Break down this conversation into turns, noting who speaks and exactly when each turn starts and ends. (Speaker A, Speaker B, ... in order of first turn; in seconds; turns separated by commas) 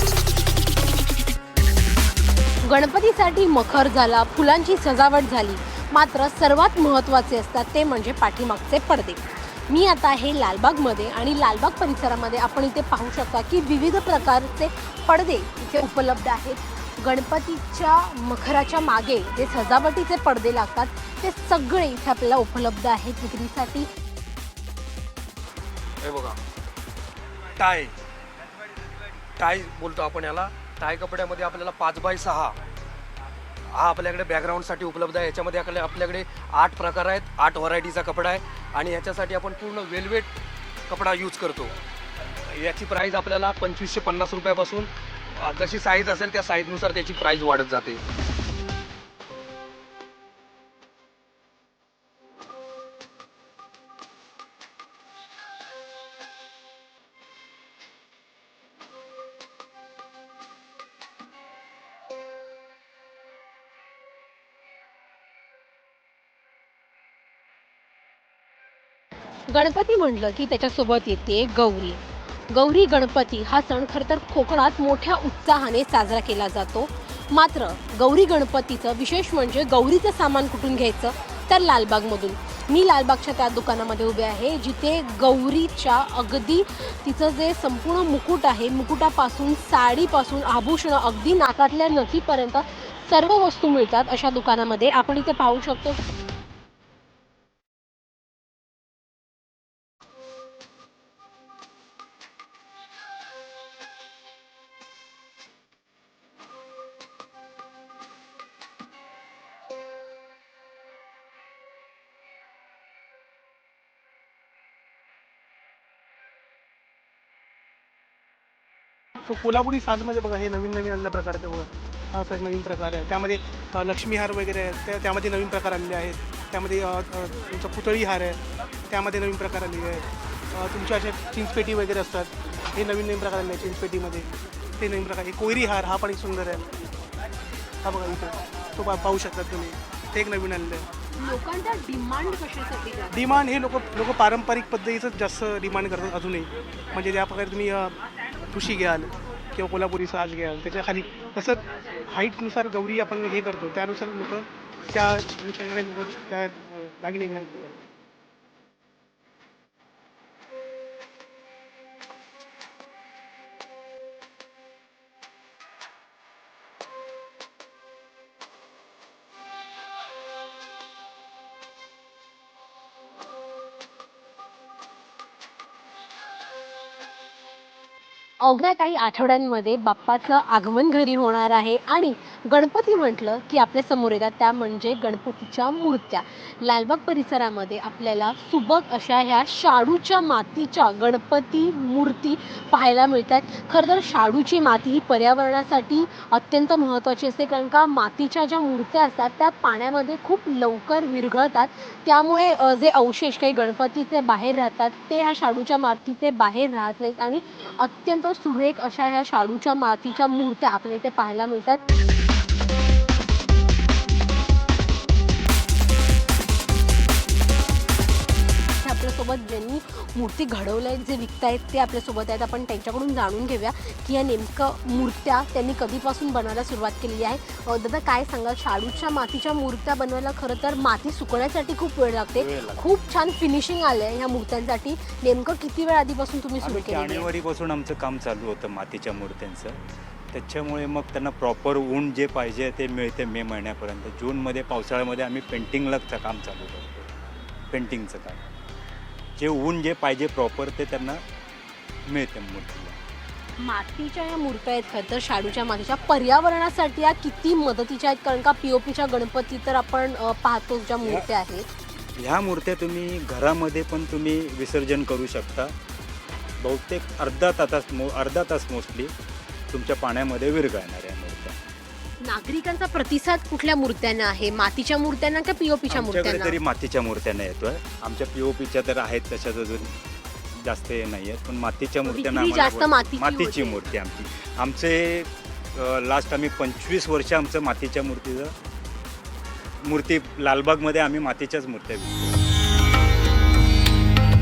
Speaker A: 2.6-23.9, Speaker B: 26.0-26.4, Speaker B: 27.6-28.0, Speaker B: 29.4-32.6, Speaker B: 33.7-40.3, Speaker B: 40.9-41.8, Speaker B: 42.5-48.0, Speaker A: 69.5-96.0, Speaker C: 119.2-136.7, Speaker C: 137.8-140.9, Speaker A: 141.2-143.4, Speaker C: 143.1-148.0, Speaker C: 148.5-157.8, Speaker A: 178.4-211.8, Speaker A: 218.8-237.3, Speaker D: 232.3-232.8, Speaker D: 236.6-239.8, Speaker D: 240.3-247.1, Speaker D: 247.7-248.4, Speaker D: 249.4-251.2, Speaker D: 252.1-253.0, Speaker A: 253.6-261.7, Speaker D: 262.2-265.7, Speaker D: 266.6-269.1, Speaker D: 269.7-271.6, Speaker A: 272.2-276.6, Speaker D: 275.9-279.9, Speaker D: 280.5-288.5, Speaker A: 282.0-283.9, Speaker D: 289.8-292.4